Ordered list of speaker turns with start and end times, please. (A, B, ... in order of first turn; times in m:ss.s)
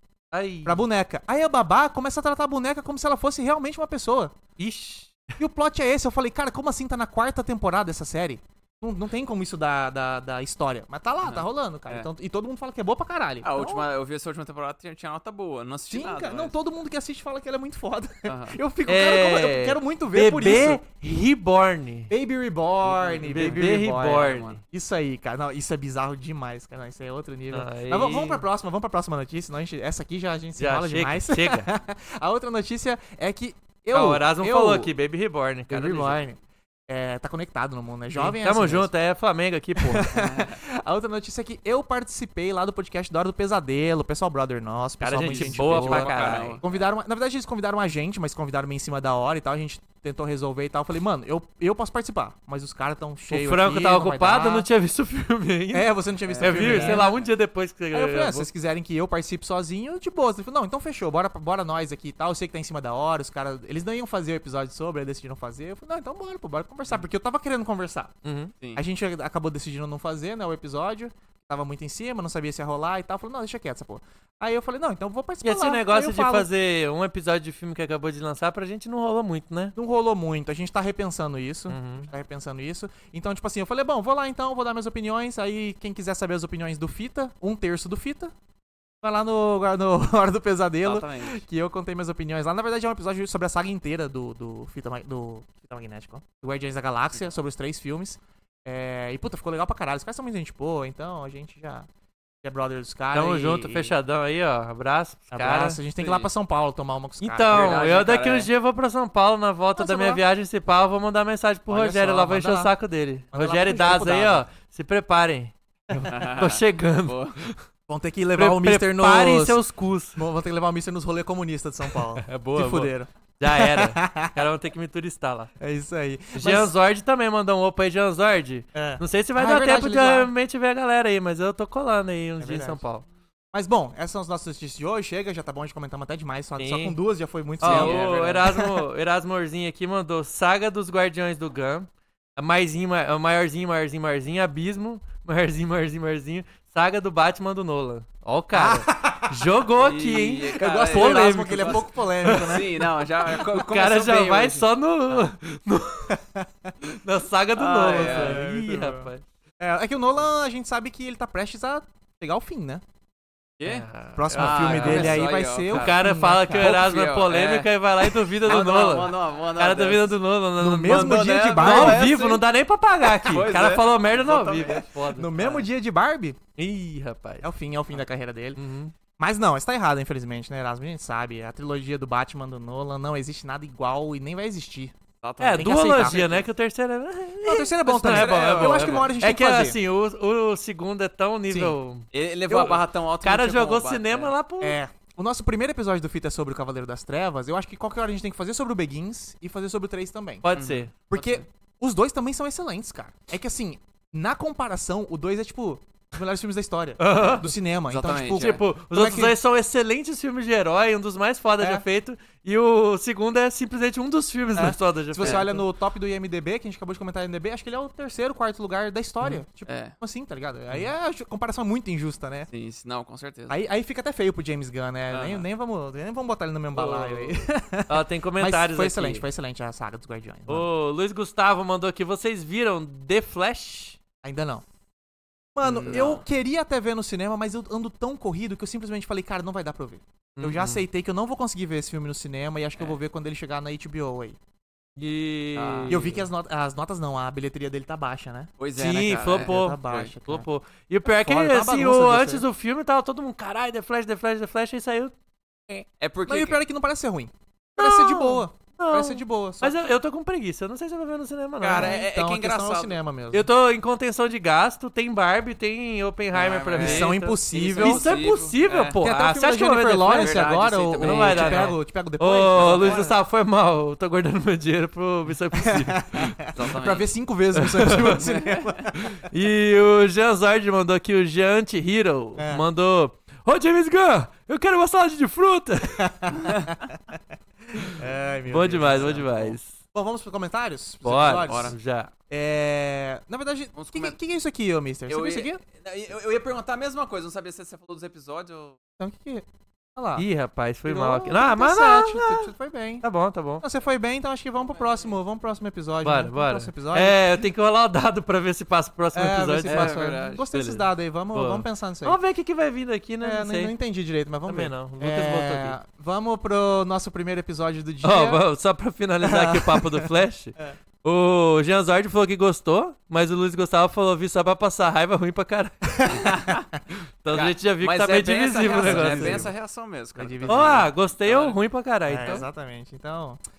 0:00.3-0:00.8 A
0:00.6-0:04.3 B
0:04.6-0:05.3 A
0:05.4-0:13.9 B
0:11.2-0:12.1 C
0:13.4-0:16.6 C
0:15.9-0:20.8 B
0:18.3-0:18.6 C
0:18.9-0:22.1 A
0:22.1-0:34.9 B
0:22.8-0:24.6 C
0:23.3-0:24.6 A
0:27.5-0:28.4 A
0:30.6-0:31.7 A
0:33.9-0:36.2 A
0:35.7-0:38.9 B
0:38.1-0:40.1 A
0:39.8-0:54.7 B
0:40.1-0:40.6 C
0:45.0-0:46.6 A
0:45.2-0:46.8 C
0:53.3-0:58.5 A
0:55.7-0:57.2 B
0:56.2-0:57.1 C
0:57.9-1:08.1 B
1:08.2-1:08.5 A
1:08.8-1:16.5 B
1:15.4-1:19.8 A
1:19.8-1:28.3 B
1:21.7-1:22.1 A
1:29.0-1:41.9 B
1:30.8-1:31.4 C
1:42.4-1:43.9 B
1:43.1-1:45.8 A
1:45.3-1:48.0 B
1:46.0-1:46.3 C
1:47.2-1:55.5 A
1:47.5-1:48.5 C
1:49.8-1:50.2 B
1:51.7-1:52.7 B
1:53.3-1:54.4 B
1:55.9-1:56.3 B
1:56.1-1:57.4 C
1:56.2-1:57.6 A
1:57.9-1:59.6 B
1:58.4-2:00.2 A
2:00.1-2:04.4 B
2:02.1-2:05.5 A
2:05.6-2:06.7 B
2:06.4-2:13.0 A
2:08.7-2:10.3 B
2:12.4-2:12.8 B
2:13.5-2:18.8 B
2:16.6-2:17.0 A
2:17.6-2:32.4 A
2:17.6-2:18.5 C
2:28.5-2:29.5 B
2:29.7-2:35.3 C
2:30.6-2:33.0 B
2:33.3-2:36.2 A
2:36.1-2:36.7 B
2:36.8-2:39.2 A
2:37.5-2:38.4 C
2:37.8-2:42.8 B
2:43.6-2:46.0 C
2:43.6-2:55.7 A
2:44.2-2:46.8 B
2:46.5-2:50.2 C
2:50.6-2:52.1 B
2:50.8-2:52.4 C
2:53.1-2:54.9 C
2:55.1-2:56.4 B
2:56.6-2:57.5 A
2:57.4-2:58.6 B
2:58.6-2:58.9 A
2:59.2-3:05.0 B
3:05.2-3:06.5 C
3:05.4-3:14.8 A
3:05.5-3:06.4 B
3:07.4-3:09.8 B
3:07.9-3:09.1 C
3:11.5-3:11.8 B
3:12.1-3:14.3 C
3:14.6-3:20.5 B
3:20.4-3:20.9 A
3:20.5-3:21.4 C
3:21.1-3:29.4 B
3:27.0-3:27.5 A
3:27.9-3:28.6 C
3:28.3-3:35.6 A
3:31.6-3:31.8 B
3:34.6-3:42.5 B
3:35.2-3:35.5 C
3:39.6-3:40.0 C
3:42.5-3:43.6 C
3:43.5-3:50.7 B
3:45.1-3:45.4 C
3:46.7-3:49.2 A
3:50.5-3:54.0 A
3:54.2-3:54.6 B
3:55.6-4:04.4 B
3:55.6-3:56.2 C
3:55.8-3:56.2 A
4:00.4-4:00.8 A
4:05.0-4:06.2 A
4:05.6-4:06.2 C
4:05.9-4:08.5 B
4:08.6-4:10.1 C
4:08.8-4:15.1 A
4:09.3-4:10.5 B
4:11.1-4:12.5 B
4:16.0-4:16.6 C
4:16.3-4:19.8 B
4:17.8-4:22.0 A
4:21.6-4:23.0 C
4:21.7-4:23.5 B
4:23.3-4:30.5 A
4:26.3-4:29.0 C
4:26.8-4:28.2 B
4:29.0-4:33.1 B
4:30.0-4:31.8 C
4:31.0-4:36.4 A
4:32.5-4:33.1 C
4:35.6-4:39.2 B
4:36.5-4:37.1 C
4:37.6-4:38.2 A
4:38.0-4:38.9 C
4:38.9-4:46.4 A
4:42.4-4:42.6 B
4:46.0-4:47.2 B
4:46.4-4:46.7 C
4:47.8-4:51.8 B
4:48.5-4:49.8 A
4:51.0-4:52.1 A
4:51.4-4:51.8 C
4:52.3-4:55.6 B
4:53.8-4:54.2 C
4:55.1-4:58.8 C
4:59.0-5:00.2 B
5:00.2-5:02.5 A
5:00.8-5:03.0 B
5:03.0-5:03.6 A
5:03.6-5:07.2 B
5:04.8-5:05.1 C
5:06.0-5:13.7 A
5:09.1-5:12.2 B
5:09.6-5:10.4 C
5:13.2-5:18.4 B
5:14.5-5:15.8 A
5:18.0-5:26.1 A
5:19.2-5:20.8 B
5:25.9-5:26.6 B
5:26.1-5:26.7 C
5:27.2-5:29.5 A
5:27.3-5:31.6 C
5:28.6-5:29.5 B
5:30.2-5:30.9 B
5:30.5-5:32.5 A
5:32.1-5:33.4 B